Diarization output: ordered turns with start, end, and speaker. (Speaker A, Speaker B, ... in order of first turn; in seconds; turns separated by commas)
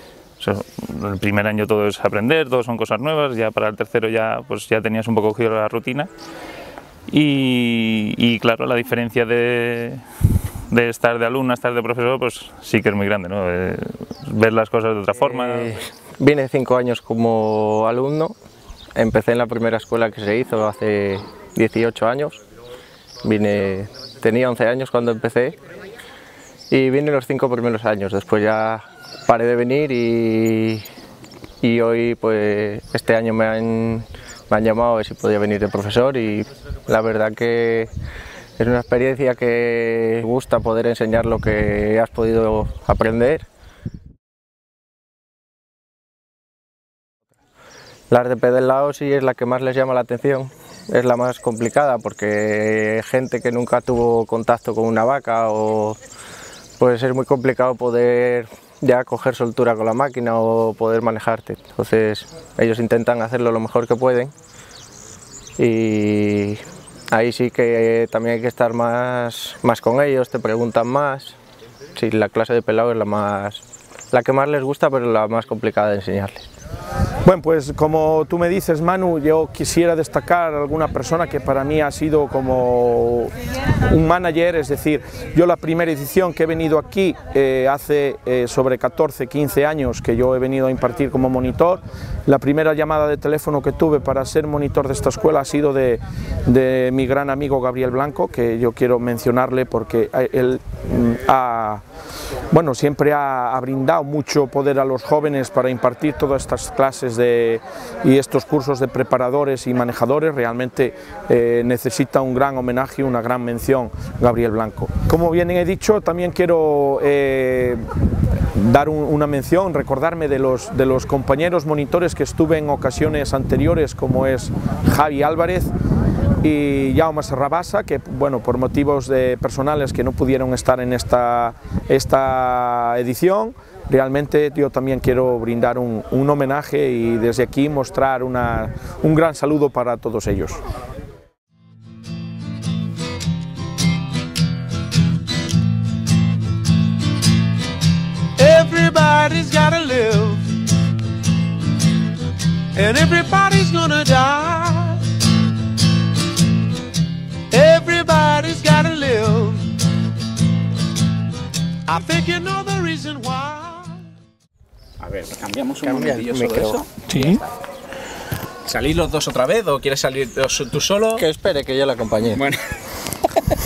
Speaker A: 0.4-6.1, Speaker A: 7.1-10.0, Speaker A: 10.7-15.7, Speaker B: 15.3-18.4, Speaker B: 19.0-22.4, Speaker B: 23.2-25.6, Speaker B: 26.7-30.9, Speaker B: 31.6-37.9, Speaker B: 38.6-43.5, Speaker B: 48.1-56.0, Speaker B: 56.8-64.3, Speaker B: 65.6-71.4, Speaker B: 72.0-76.5, Speaker C: 77.2-83.3, Speaker C: 83.9-101.8, Speaker C: 102.5-117.8, Speaker C: 118.5-125.7, Speaker C: 126.4-140.6, Speaker D: 148.4-150.6, Speaker D: 152.7-155.1, Speaker D: 157.5-159.7, Speaker D: 161.9-164.0, Speaker E: 165.0-167.4, Speaker B: 165.8-166.8, Speaker A: 167.1-167.4, Speaker E: 168.7-171.2, Speaker B: 171.1-172.5